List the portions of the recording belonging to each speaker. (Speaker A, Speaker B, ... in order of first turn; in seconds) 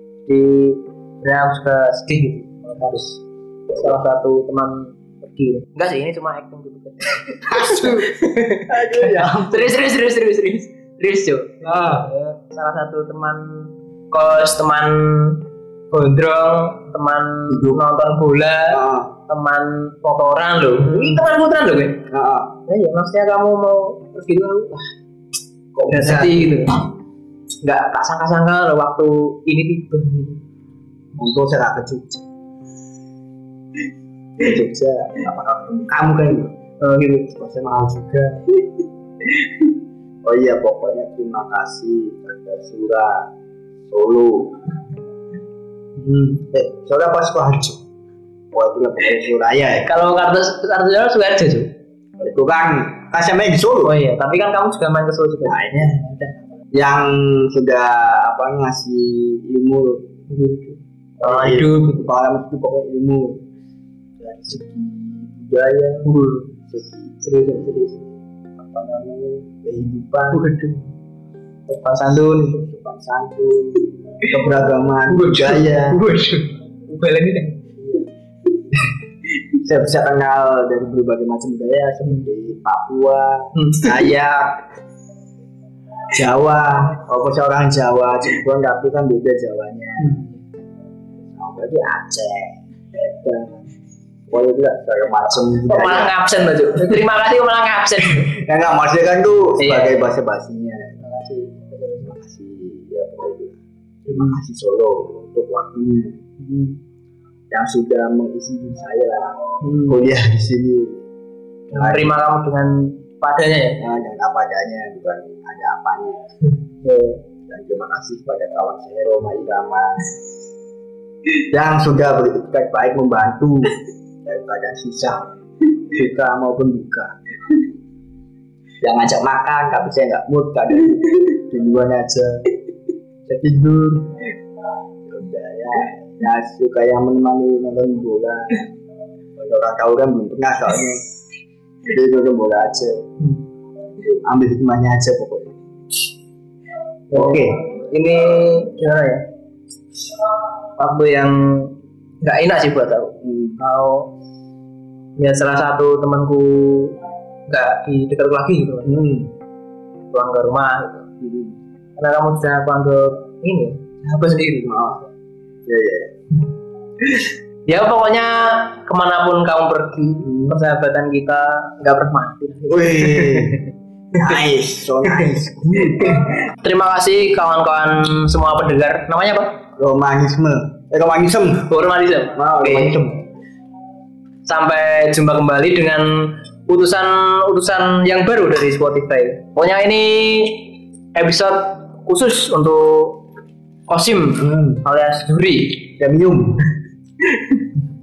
Speaker A: 0.3-22.0, 22.7-24.9, 25.9-26.8, 27.6-30.4, 36.8-37.3, 39.4-39.7, 46.0-46.4, 49.8-51.7, 53.8-56.4, 60.3-62.0, 66.0-66.5, 67.2-67.8, 70.3-70.8, 71.7-72.6, 75.1-77.6, 83.5-84.1, 90.0-90.4, 95.7-98.3, 99.6-100.1, 101.0-102.1, 104.1-104.4, 106.4-106.8, 109.6-110.0, 111.7-113.8, 116.8-117.2, 147.1-149.3, 150.8-154.1, 155.2-159.0, 160.1-161.1, 162.0-165.1, 167.0-174.4, 175.1-179.6, 181.7-183.0, 184.4-193.2, 193.9-195.9, 197.3-197.6
Speaker B: 7.4-8.1, 8.7-9.7, 11.6-12.1, 17.5-17.8, 18.7-19.1, 20.9-21.2, 22.1-22.5, 25.7-26.7, 31.2-32.2, 34.4-36.5, 37.3-38.4, 40.2-43.3, 43.9-44.6, 46.5-47.8, 48.5-49.9, 52.2-53.9, 55.4-55.9, 56.7-60.0, 61.2-63.4, 64.2-66.1, 66.7-70.4, 72.3-76.0, 77.8-78.1, 79.6-84.6, 86.1-90.1, 91.2-93.6, 94.3-96.1, 98.1-100.9, 102.0-106.2, 107.5-111.0, 111.7-112.2, 113.8-116.2, 117.5-120.0, 121.5-125.3, 125.8-127.2, 128.8-132.4, 133.2-134.2, 135.0-138.6, 139.3-141.0, 141.8-143.0, 144.0-145.6, 147.1-147.5, 153.2-153.6, 158.8-159.3, 161.2-161.6, 164.6-165.0, 165.7-166.1, 170.2-170.6, 172.7-173.6, 174.2-176.2, 179.8-181.7, 182.3-183.3, 194.4-194.8, 196.0-196.6